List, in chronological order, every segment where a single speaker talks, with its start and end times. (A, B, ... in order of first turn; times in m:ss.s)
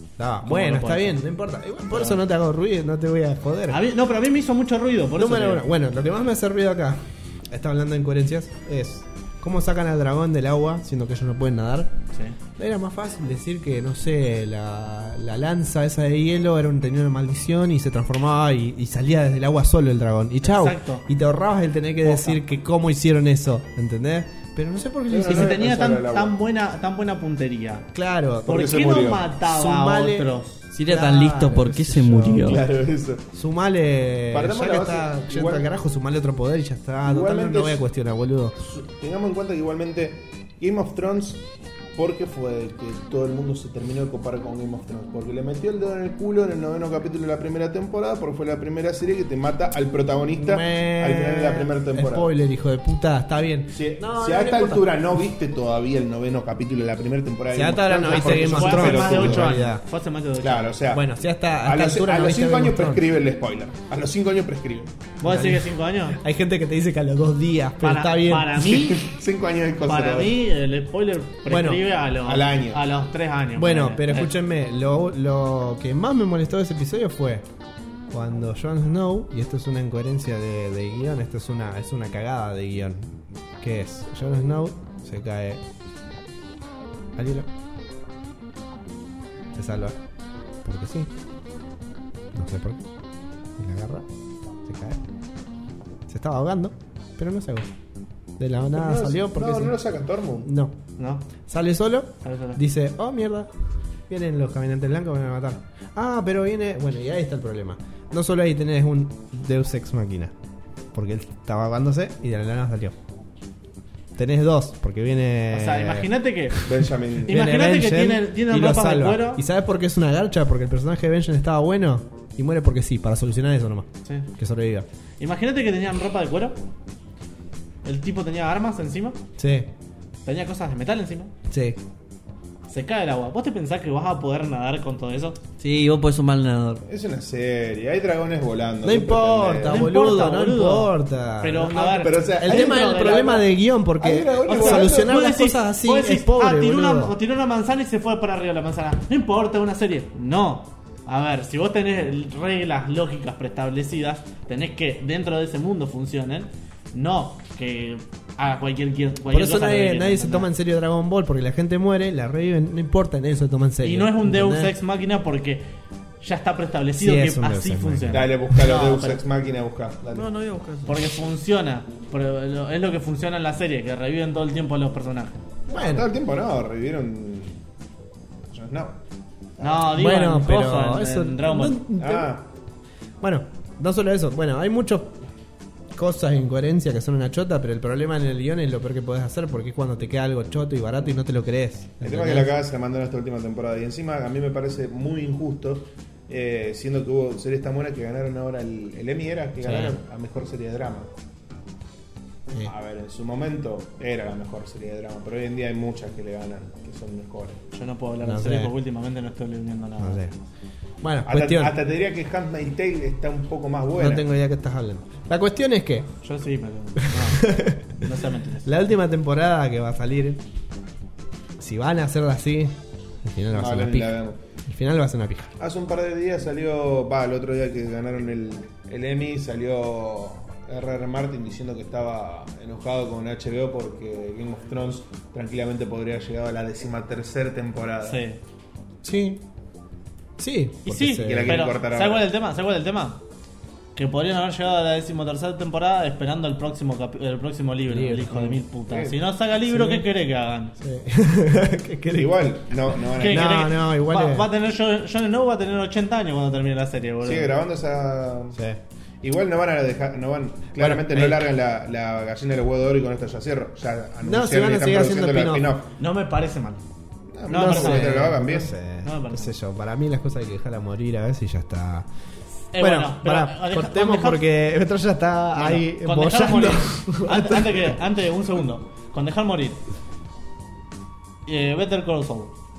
0:00.2-0:03.8 A
0:00.4-0:01.2 B
0:01.9-0:02.2 B
0:03.7-0:05.7 B
0:05.2-0:12.0 A
0:12.6-0:25.7 A
0:20.4-0:21.1 B
0:22.0-0:22.4 B
0:25.1-0:26.4 C
0:25.2-0:27.9 B
0:27.9-0:28.8 A
0:28.5-0:29.3 C
0:28.5-0:30.6 B
0:29.4-0:32.6 A
0:30.7-0:32.6 D
0:32.4-0:33.2 C
0:33.3-0:38.6 A
0:34.3-0:35.7 C
0:37.0-0:37.8 C
0:38.6-0:41.4 C
0:42.0-0:52.3 C
0:50.4-0:55.0 A
0:53.7-0:59.6 C
0:57.5-0:59.8 A
0:58.1-1:00.8 B
1:00.4-1:01.0 C
1:00.9-1:03.0 A
1:01.6-1:05.0 C
1:05.2-1:06.2 B
1:05.2-1:08.7 A
1:07.8-1:09.1 B
1:08.6-1:10.4 C
1:09.8-1:14.3 B
1:11.5-1:11.8 A
1:12.2-1:12.8 C
1:13.6-1:17.5 A
1:18.1-1:25.6 A
1:27.2-1:27.5 A
1:29.5-1:30.0 A
1:30.6-1:31.1 A
1:32.3-1:32.8 A
1:33.6-1:34.1 A
1:34.6-1:35.0 A
1:36.1-1:37.7 A
1:38.4-1:39.8 A
1:38.7-1:40.5 C
1:40.4-1:40.8 A
1:41.0-1:41.3 B
1:41.5-1:43.5 A
1:42.2-1:42.6 B
1:44.1-1:50.3 A
1:50.9-1:53.0 A
1:54.2-2:04.9 A
1:55.5-1:56.6 B
1:56.6-1:57.4 C
1:57.3-1:59.4 B
2:05.2-2:06.6 B
2:07.8-2:09.2 B
2:09.4-2:09.7 A
2:10.2-2:11.3 B
2:11.5-2:11.8 A
2:12.7-2:15.4 B
2:15.6-2:16.8 D
2:16.9-2:19.9 C
2:18.8-2:27.2 A
2:19.6-2:23.5 B
2:21.9-2:23.4 C
2:24.0-2:25.2 C
2:24.5-2:40.5 B
2:39.3-2:44.8 A
2:43.8-2:45.6 B
2:46.2-2:49.2 B
2:47.0-2:48.3 A
2:48.1-2:50.3 C
2:50.1-2:51.1 D
2:50.9-2:55.4 B
2:55.7-2:56.1 A
2:55.7-2:57.6 C
2:58.5-2:59.0 C
2:59.6-2:59.9 C
2:59.6-3:01.8 B
2:59.9-3:02.4 A
3:02.0-3:02.5 C
3:03.2-3:05.2 A
3:06.0-3:12.5 A
3:12.0-3:21.1 C
3:19.6-3:20.0 A
3:22.6-3:27.6 C
3:27.7-3:30.3 B
3:28.2-3:28.7 A
3:30.0-3:30.4 A
3:31.0-3:31.8 A
3:31.3-3:34.2 C
3:34.0-3:36.1 A
3:36.2-3:38.8 B
3:37.0-3:38.1 A
3:38.6-3:40.4 A
3:41.6-3:45.5 A
3:43.5-3:44.4 C
3:45.6-3:58.2 C
3:58.0-3:58.4 B
3:59.0-3:59.4 A
4:00.4-4:01.7 A
4:00.9-4:03.2 B
4:01.2-4:02.3 C
4:04.0-4:10.7 B
4:07.9-4:08.6 A
4:08.9-4:09.2 C
4:09.7-4:10.1 A
4:10.8-4:14.5 A
4:12.2-4:13.6 C
4:13.2-4:17.6 B
4:17.2-4:18.6 C
4:18.5-4:18.8 A
4:19.2-4:25.9 C
4:20.8-4:21.5 A
4:24.2-4:25.7 A
4:26.0-4:26.8 B
4:27.3-4:28.7 C
4:27.5-4:28.3 B
4:27.5-4:32.1 A
4:29.0-4:29.6 B
4:32.7-4:34.4 B
4:32.8-4:38.0 A
4:35.5-4:39.8 B
4:41.5-4:42.5 B